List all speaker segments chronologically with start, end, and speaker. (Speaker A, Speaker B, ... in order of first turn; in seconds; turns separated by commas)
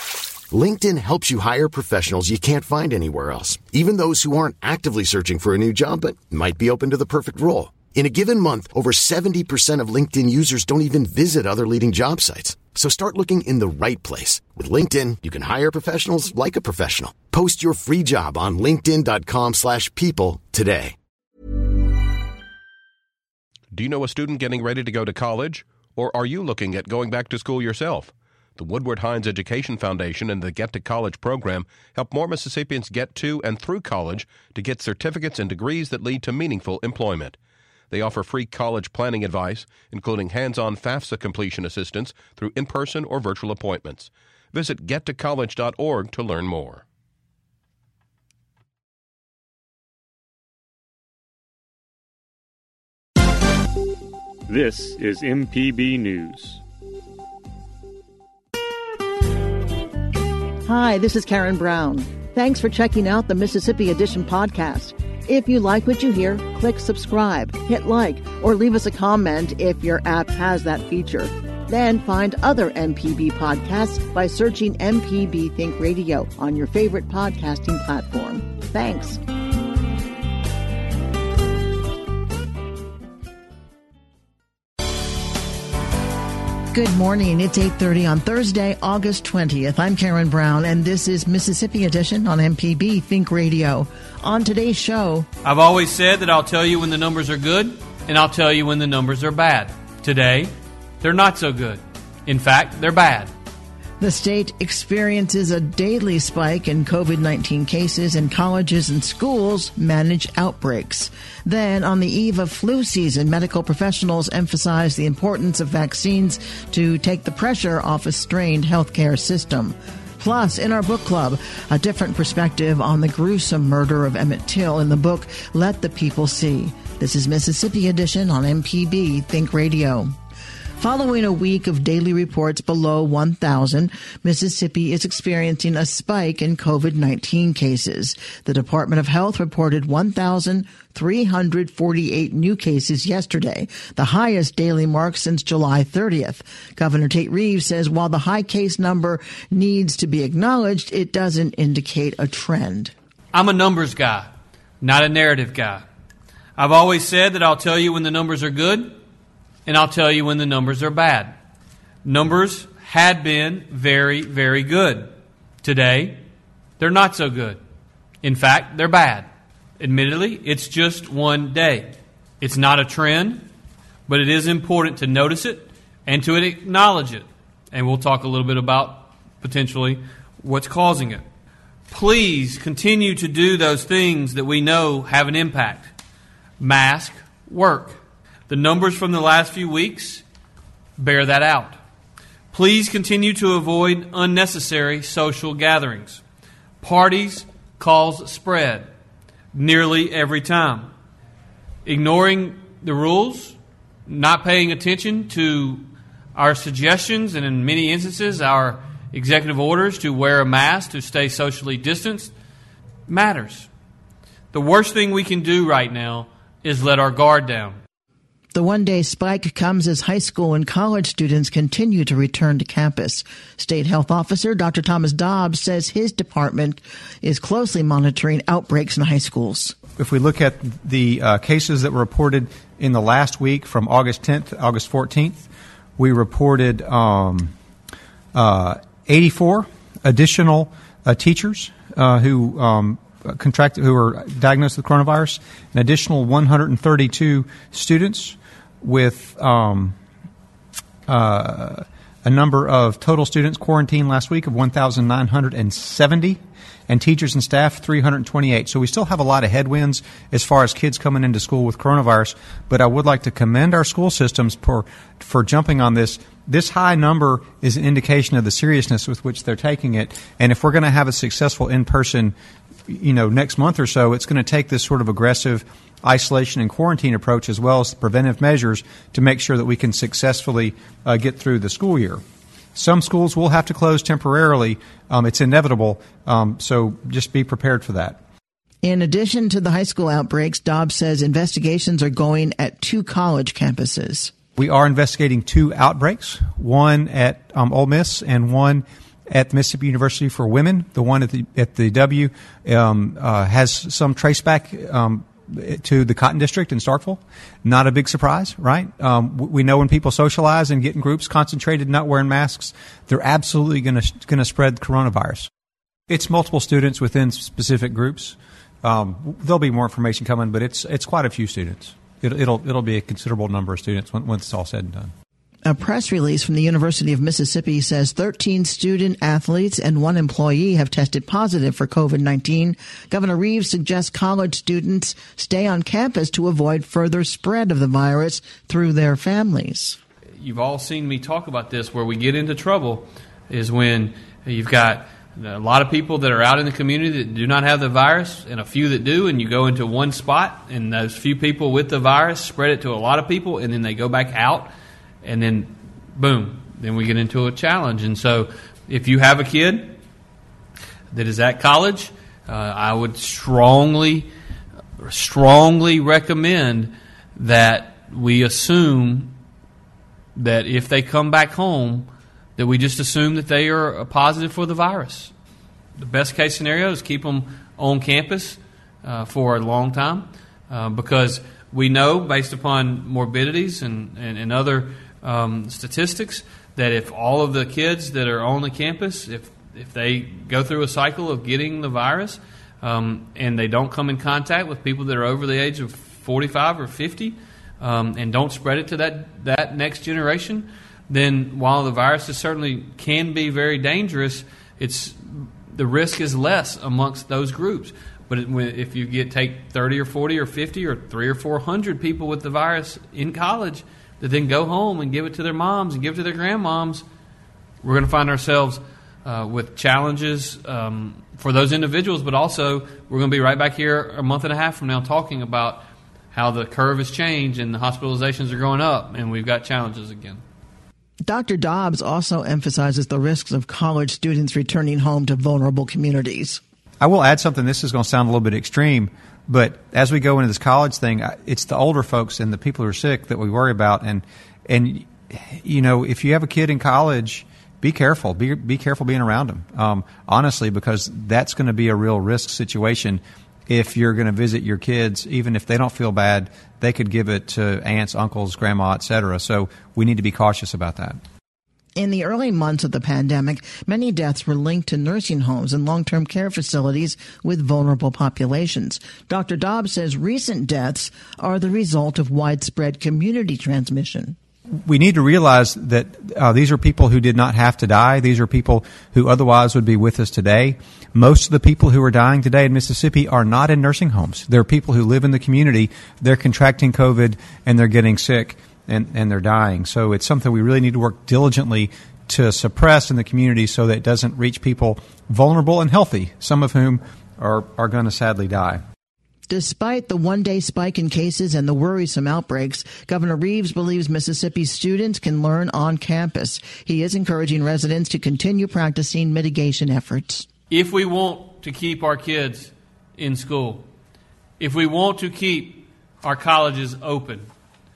Speaker A: 0.5-20.9, Speaker B: 23.7-37.4, Speaker B: 37.9-46.8, Speaker C: 54.5-56.6, Speaker D: 60.6-79.2, Speaker D: 86.7-95.3, Speaker E: 95.4-103.3, Speaker D: 104.0-130.2, Speaker D: 130.8-152.9, Speaker E: 153.3-155.8, Speaker E: 156.6-159.0, Speaker E: 159.7-161.4, Speaker E: 162.1-166.2, Speaker E: 166.8-167.6, Speaker E: 168.2-173.5, Speaker E: 174.1-181.2, Speaker E: 181.9-185.9, Speaker E: 186.6-190.2, Speaker E: 191.0-191.8, Speaker E: 192.5-196.2, Speaker E: 196.8-198.9, Speaker E: 199.5-200.9, Speaker E: 201.8-212.3, Speaker E: 213.1-213.7, Speaker E: 214.5-217.8, Speaker D: 218.5-229.8, Speaker F: 230.0-237.5, Speaker F: 238.3-250.0, Speaker F: 251.1-272.3, Speaker F: 272.9-282.2, Speaker F: 282.8-288.2, Speaker D: 288.8-294.3, Speaker F: 294.6-315.5, Speaker F: 316.1-325.1, Speaker D: 325.6-340.0, Speaker E: 340.4-354.7, Speaker E: 355.2-360.0, Speaker E: 361.1-364.3, Speaker E: 365.0-369.3, Speaker E: 370.3-375.3, Speaker E: 376.0-417.0, Speaker E: 417.8-430.4, Speaker D: 431.2-436.6, Speaker F: 437.0-461.2, Speaker D: 461.9-474.4, Speaker F: 474.9-498.8, Speaker D: 499.5-510.5, Speaker E: 510.7-513.9, Speaker E: 514.6-517.5